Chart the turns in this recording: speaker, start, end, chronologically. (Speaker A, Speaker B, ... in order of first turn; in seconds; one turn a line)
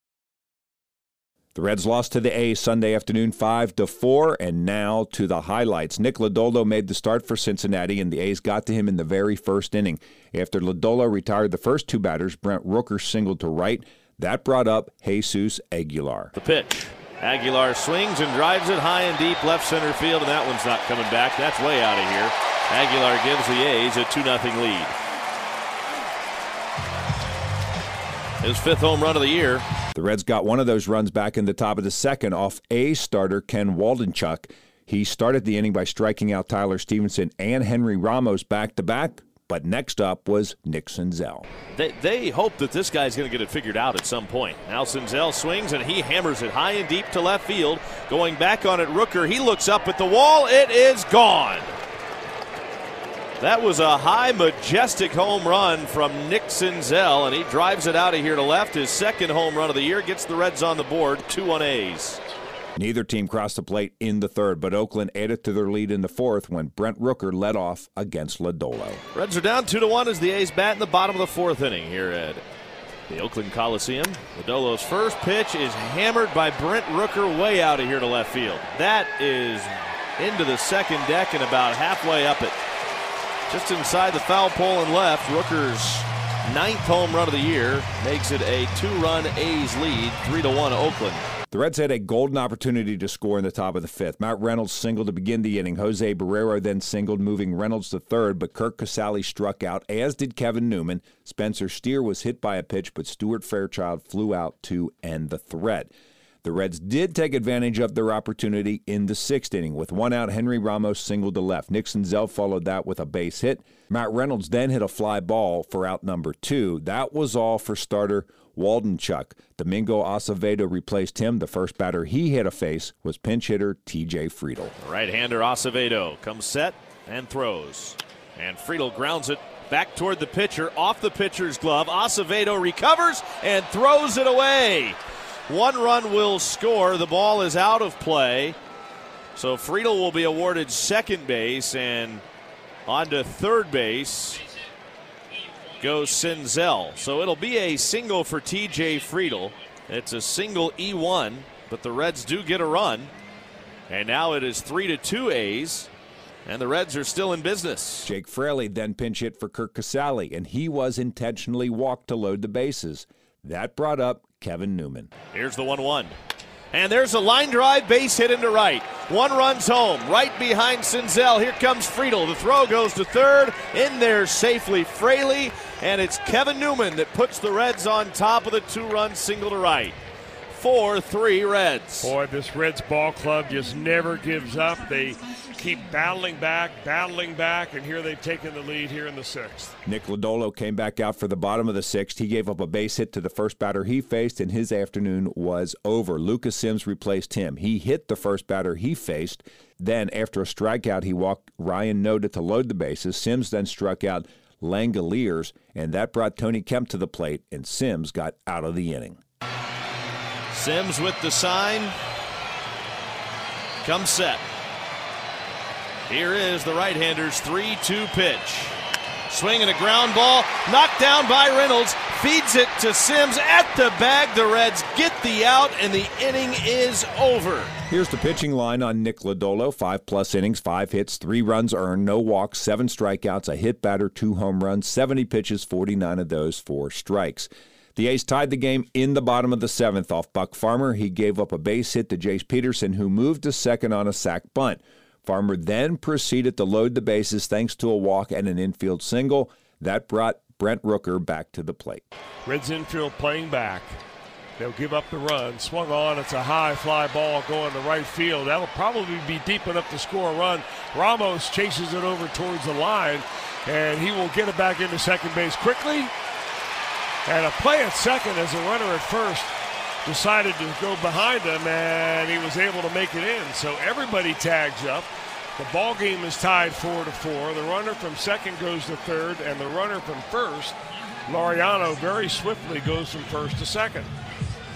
Speaker A: 1.6-16.3
Speaker B: 16.4-24.9
Speaker B: 28.4-29.6
Speaker A: 29.9-41.5
Speaker B: 41.7-51.8
Speaker B: 53.4-62.2
Speaker A: 62.8-69.0
Speaker B: 69.1-72.4
Speaker B: 73.1-82.6
Speaker B: 83.5-91.3
Speaker A: 91.5-105.9
Speaker A: 106.4-124.8
Speaker B: 124.8-138.6
Speaker B: 139.3-142.2
Speaker B: 142.9-144.4
Speaker B: 145.8-153.1
Speaker B: 153.9-155.9
Speaker B: 156.4-158.1
Speaker A: 158.1-165.1
Speaker B: 165.3-166.2
Speaker B: 166.7-180.0
Speaker B: 180.5-182.1
Speaker C: 182.0-189.7
Speaker A: 189.8-209.2
Speaker B: 210.5-211.9
Speaker B: 213.8-214.4
Speaker B: 216.1-227.8
Speaker A: 227.9-252.1
Speaker C: 252.4-254.0
Speaker C: 254.6-266.1
Speaker C: 267.3-280.8
Speaker C: 281.3-284.1